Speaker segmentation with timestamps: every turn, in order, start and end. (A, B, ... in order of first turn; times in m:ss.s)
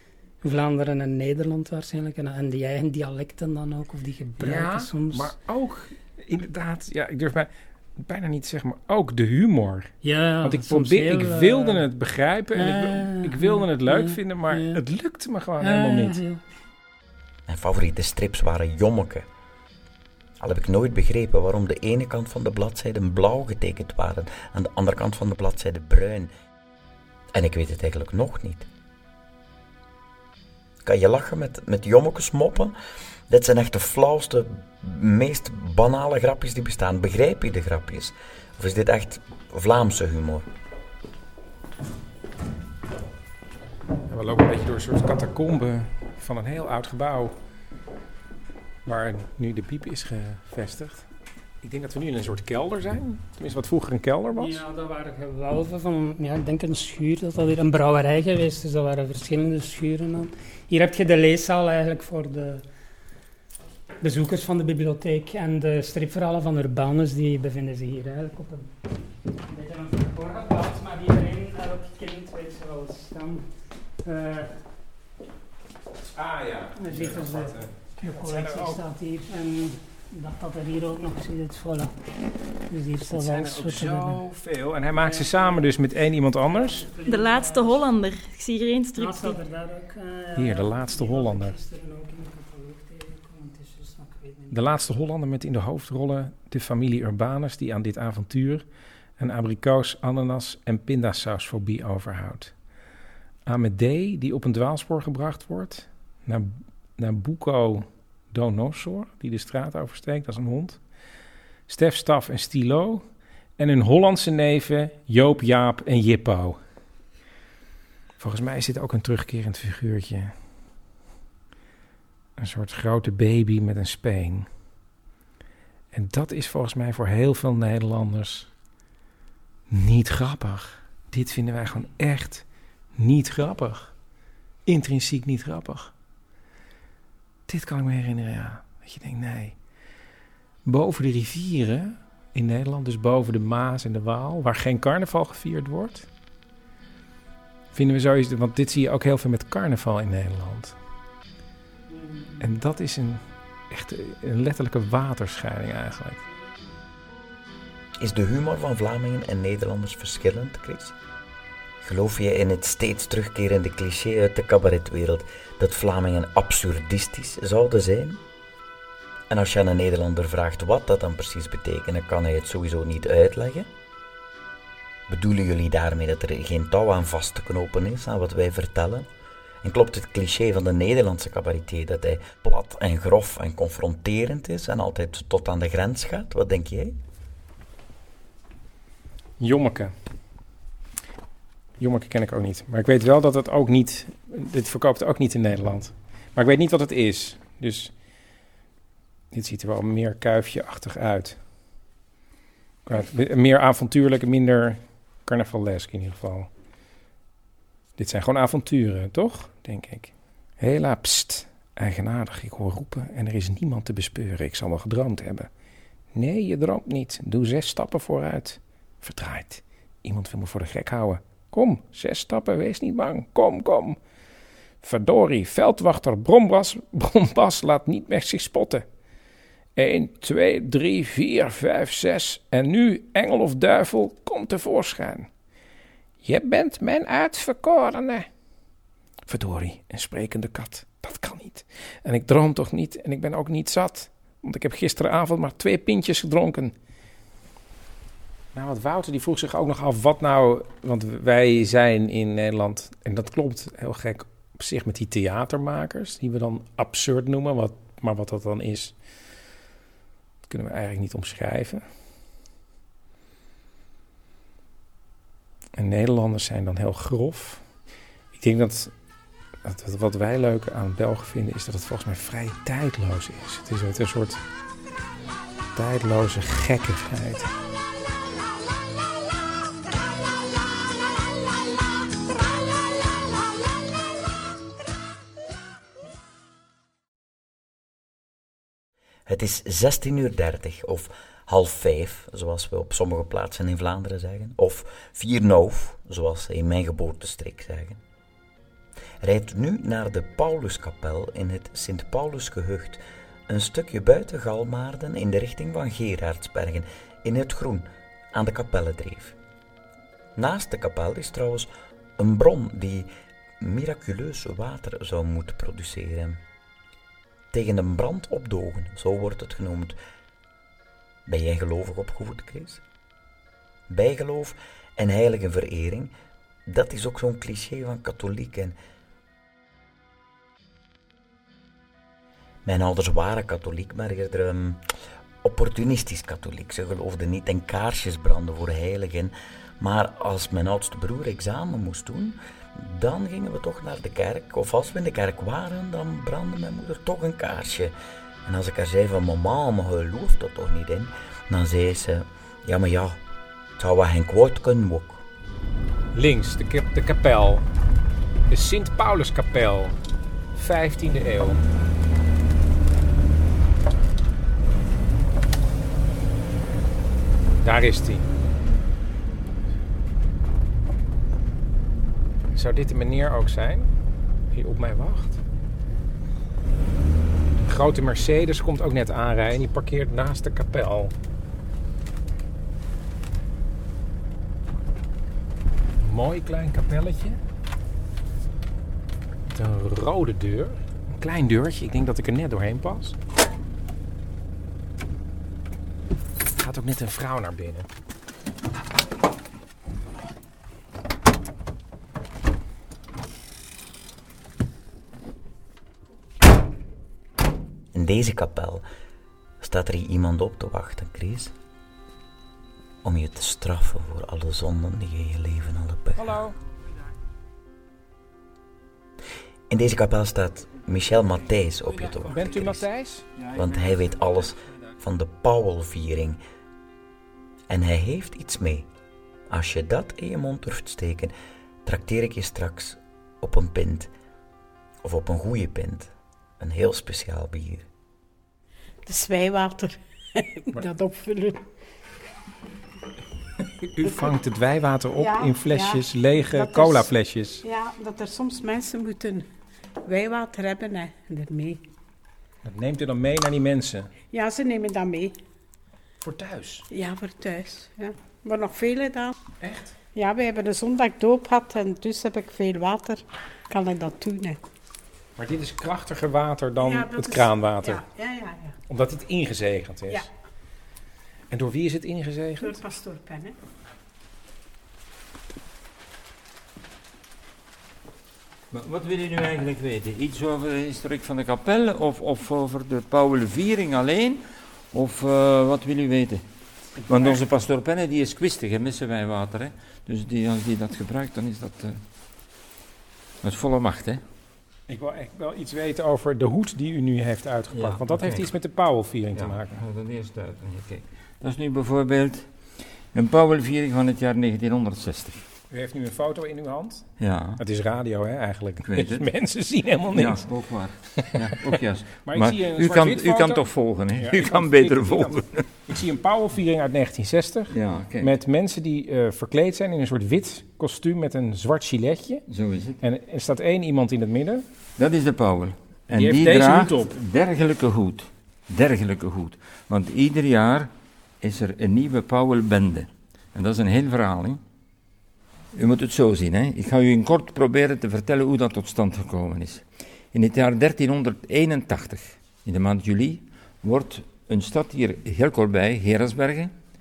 0:00.4-0:05.3 A
0:04.4-0:16.2 B
0:10.0-0:11.8 A
0:12.6-0:14.8 A
0:15.6-0:16.4 A
0:17.5-0:19.3 C
0:20.4-0:26.3 C
0:27.3-0:28.7 C
0:30.8-0:32.8 C
0:33.3-0:40.5 C
0:44.1-0:47.4 B
0:48.8-0:51.1 B
0:51.6-0:54.6 B
0:54.3-1:02.6 A
1:04.0-1:08.7 A
1:09.5-1:13.5 A
1:14.0-1:14.5 A
1:16.1-1:18.8 B
1:16.8-1:22.0 A
1:22.7-1:24.2 A
1:23.1-1:26.8 B
1:25.0-1:25.7 A
1:26.4-1:27.8 A
1:27.0-1:29.4 D
1:29.0-1:34.6 A
1:30.4-1:31.6 B
1:34.5-1:38.7 B
1:39.2-1:42.6 B
1:43.5-1:50.8 B
1:51.7-1:53.0 B
1:53.6-1:56.6 B
1:58.2-2:00.3 B
2:02.4-2:04.5 B
2:05.9-2:08.5 B
2:09.7-2:12.4 B
2:13.0-2:14.0 B
2:14.7-2:15.9 B
2:17.5-2:19.6 B
2:20.6-2:26.1 B
2:27.7-2:30.8 B
2:31.9-2:32.4 A
2:32.4-2:36.2 B
2:38.0-2:41.0 C
2:41.8-2:48.2 C
2:49.3-2:53.7 C
2:55.1-2:59.1 C
2:59.6-3:07.0 C
3:09.4-3:09.9 B
3:11.8-3:17.9 B
3:19.3-3:21.4 B
3:22.9-3:26.5 B
3:28.0-3:35.5 B
3:36.1-3:44.0 B
3:44.8-3:48.9 B
3:49.8-3:55.3 B
3:56.2-3:58.3 B
3:59.3-4:06.7 B
4:08.5-4:19.0 B
4:20.5-4:21.8 B
4:25.8-4:27.6 B
4:28.3-4:28.9 B
4:29.6-4:34.4 B
4:35.8-4:37.5 B
4:49.3-4:58.0 C
4:59.2-5:09.4 C
5:10.4-5:13.1 C
5:13.6-5:16.4 C
5:17.5-5:20.0 C
5:21.3-5:22.8 C
5:23.9-5:26.1 C
5:26.7-5:28.8 C
5:32.6-5:34.8 C
5:35.4-5:47.9 C
5:48.4-5:53.2 C
5:53.8-5:55.2 C
5:56.1-5:57.6 B
5:58.5-6:00.0 B
6:00.6-6:01.6 B
6:07.6-6:08.3 B
6:12.5-6:13.9 B
6:14.5-6:15.4 B
6:17.6-6:21.1 B
6:26.0-6:27.4 B
6:29.5-6:33.2 B
6:36.6-6:37.9 B
6:47.9-6:48.8 C
6:49.6-6:51.5 C
6:53.0-6:56.4 C
6:56.2-6:56.6 B
6:59.7-7:02.8 C
7:02.3-7:03.3 B
7:03.5-7:06.4 C
7:07.7-7:08.9 C
7:09.5-7:11.3 C
7:11.8-7:14.1 C
7:15.0-7:17.9 C
7:19.0-7:21.6 E
7:23.8-7:27.6 B
7:25.2-7:27.1 E
7:27.6-7:29.5 E
7:30.0-7:31.8 E
7:32.6-7:34.1 B
7:34.3-7:35.4 E
7:36.2-7:36.9 B
7:36.9-7:39.4 E
7:39.6-7:40.0 B
7:40.2-7:44.6 E
7:45.4-7:48.0 B
7:46.8-7:48.8 E
7:48.9-7:50.3 B
7:51.5-7:52.8 B
7:52.6-7:53.6 E
7:58.7-8:04.4 F
8:04.9-8:06.4 F
8:07.1-8:12.0 F
8:07.1-8:07.4 B
8:13.4-8:14.2 F
8:14.9-8:19.8 B
8:17.7-8:18.5 F
8:19.3-8:22.5 F
8:23.1-8:25.4 F
8:25.7-8:27.1 B
8:27.2-8:27.6 F
8:27.6-8:30.5 B
8:28.8-8:29.3 F
8:30.1-8:35.6 F
8:32.2-8:33.6 B
8:34.2-8:42.4 B
8:37.7-8:38.3 F
8:42.5-8:43.0 F
8:43.0-8:44.6 B
8:45.0-8:50.9 F
8:46.1-8:47.2 B
8:51.4-8:54.6 F
8:55.7-9:06.7 F